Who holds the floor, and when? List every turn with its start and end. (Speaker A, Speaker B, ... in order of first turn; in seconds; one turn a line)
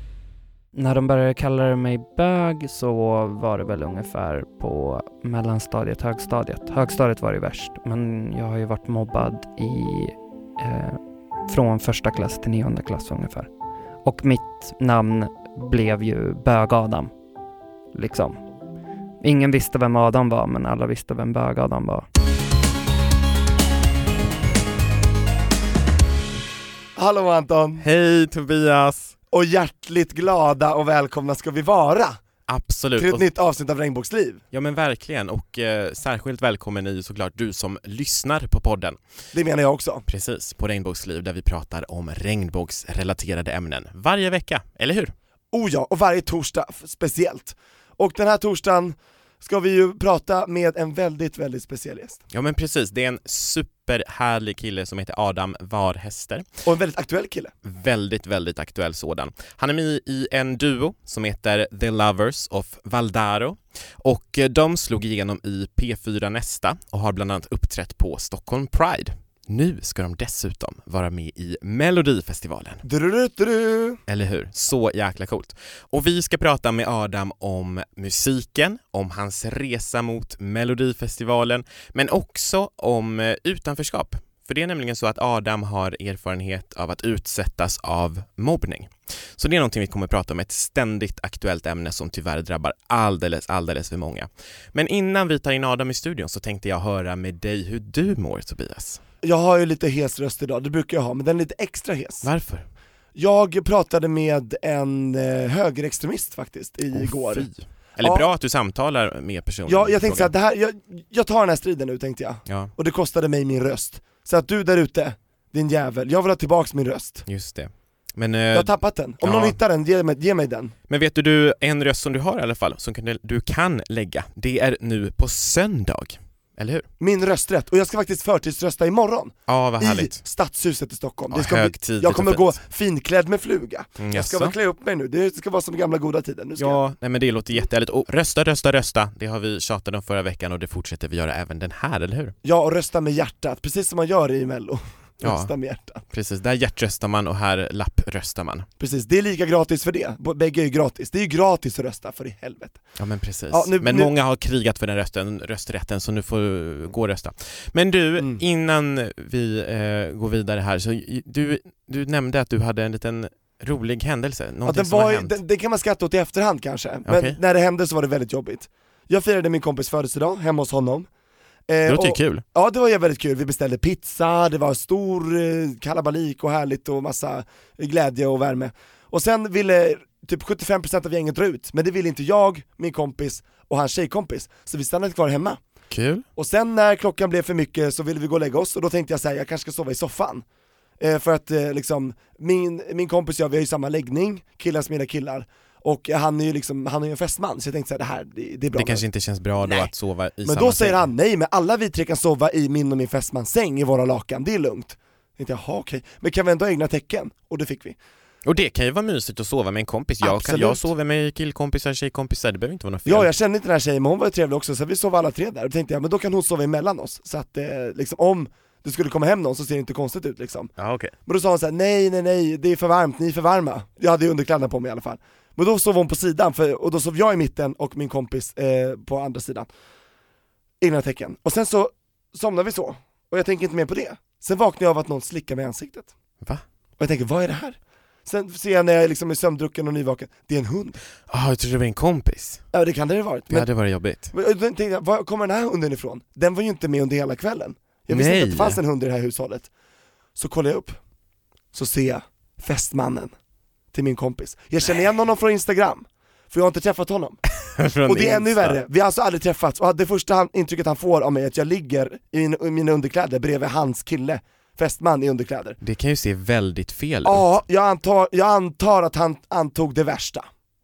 Speaker A: 0.7-13.5
Speaker A: 14.0-17.1
Speaker A: 17.9-18.4
Speaker A: 19.2-22.0
Speaker B: 26.9-27.8
Speaker C: 27.8-29.1
Speaker B: 29.3-32.2
Speaker C: 32.5-33.2
Speaker B: 33.0-34.4
Speaker C: 34.5-39.0
Speaker B: 39.3-40.0
Speaker C: 40.1-45.1
Speaker B: 45.5-52.2
Speaker C: 52.3-56.5
Speaker B: 56.6-57.5
Speaker C: 57.6-72.8
Speaker B: 72.8-74.0
Speaker C: 74.1-99.0
Speaker B: 99.2-102.3
Speaker C: 102.2-102.7
Speaker B: 103.1-107.5
Speaker C: 106.9-110.3
Speaker B: 108.0-108.3
Speaker B: 109.7-117.2
Speaker C: 112.5-112.7
Speaker C: 117.2-119.6
Speaker B: 118.5-120.7
Speaker C: 120.9-126.8
Speaker B: 127.0-136.8
Speaker C: 129.5-130.2
Speaker C: 131.3-132.5
Speaker C: 134.0-134.5
Speaker C: 136.6-142.3
Speaker B: 142.4-146.0
Speaker C: 145.2-145.5
Speaker C: 146.1-148.7
Speaker B: 148.8-152.8
Speaker C: 153.0-165.4
Speaker B: 153.5-154.1
Speaker B: 158.2-158.4
Speaker B: 164.7-171.1
Speaker C: 167.1-167.4
Speaker B: 171.7-185.6
Speaker C: 171.8-172.4
Speaker C: 185.9-186.2
Speaker B: 186.3-190.4
Speaker B: 191.0-199.0
Speaker C: 198.7-201.1
Speaker B: 199.6-199.9
Speaker B: 200.4-208.0
Speaker C: 208.4-213.3
Speaker B: 210.2-210.9
Speaker B: 213.0-220.7
Speaker C: 220.8-221.1
Speaker B: 221.2-229.7
Speaker B: 230.8-236.1
Speaker B: 237.0-241.0
Speaker C: 241.3-242.6
Speaker B: 242.7-243.7
Speaker C: 243.5-244.3
Speaker B: 244.3-249.7
Speaker C: 248.1-248.8
Speaker B: 250.3-251.0
Speaker B: 251.7-253.3
Speaker B: 253.9-257.4
Speaker C: 257.6-258.8
Speaker B: 258.1-265.8
Speaker C: 265.8-267.5
Speaker B: 267.2-270.5